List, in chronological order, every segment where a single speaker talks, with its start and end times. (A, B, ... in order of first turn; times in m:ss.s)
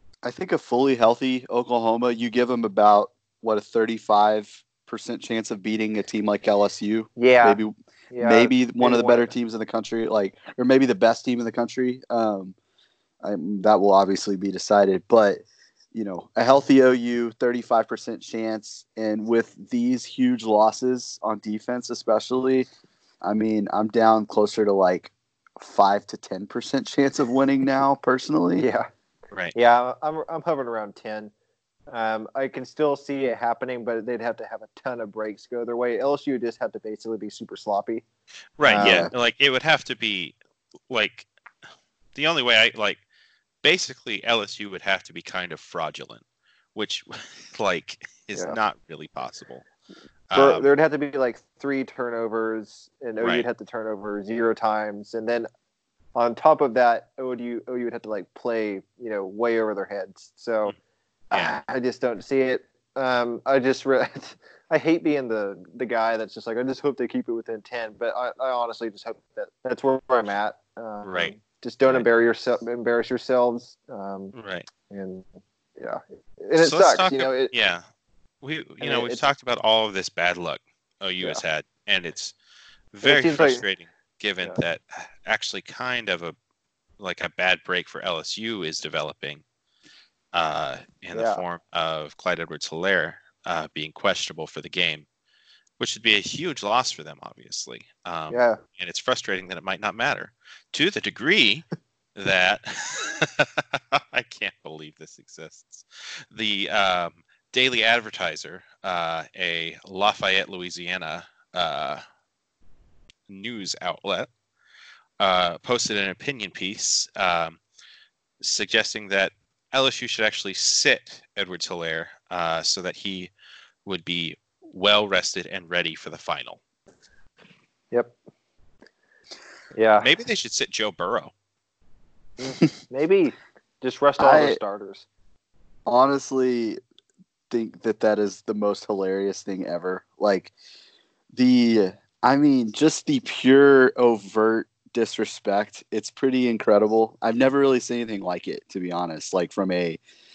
0:00.2-0:12.6 A
0:07.2-0:09.3 B
0:13.2-0:22.7 A
0:23.2-0:28.6 A
0:28.6-0:28.9 B
0:29.5-0:31.3 B
0:31.9-0:38.0 B
0:38.6-0:40.4 C
0:38.6-0:39.1 B
0:38.8-0:39.1 A
0:40.9-0:41.3 C
0:42.2-0:43.0 C
0:43.6-0:46.2 C
0:46.8-0:49.6 C
0:50.3-0:50.7 C
0:50.4-0:55.5 B
0:53.2-0:53.5 C
0:56.2-1:00.7 B
1:01.3-1:14.3 B
1:01.3-1:01.6 C
1:11.0-1:11.3 C
1:14.3-1:14.7 C
1:14.9-1:15.2 B
1:15.8-1:17.5 B
1:16.6-1:17.8 C
1:18.4-1:22.3 C
1:18.8-1:19.2 B
1:22.9-1:26.4 C
1:23.0-1:23.6 B
1:27.0-1:29.4 C
1:30.3-1:35.1 C
1:31.1-1:31.4 B
1:35.8-1:52.0 C
1:38.3-1:38.6 B
1:53.3-1:54.3 C
1:55.2-1:57.6 C
1:58.4-2:03.3 C
2:03.8-2:06.6 C
2:09.7-2:10.1 B
2:10.0-2:11.3 C
2:12.4-2:15.1 B
2:14.2-2:14.6 A
2:15.9-2:16.8 A
2:17.5-2:20.5 A
2:21.3-2:30.0 A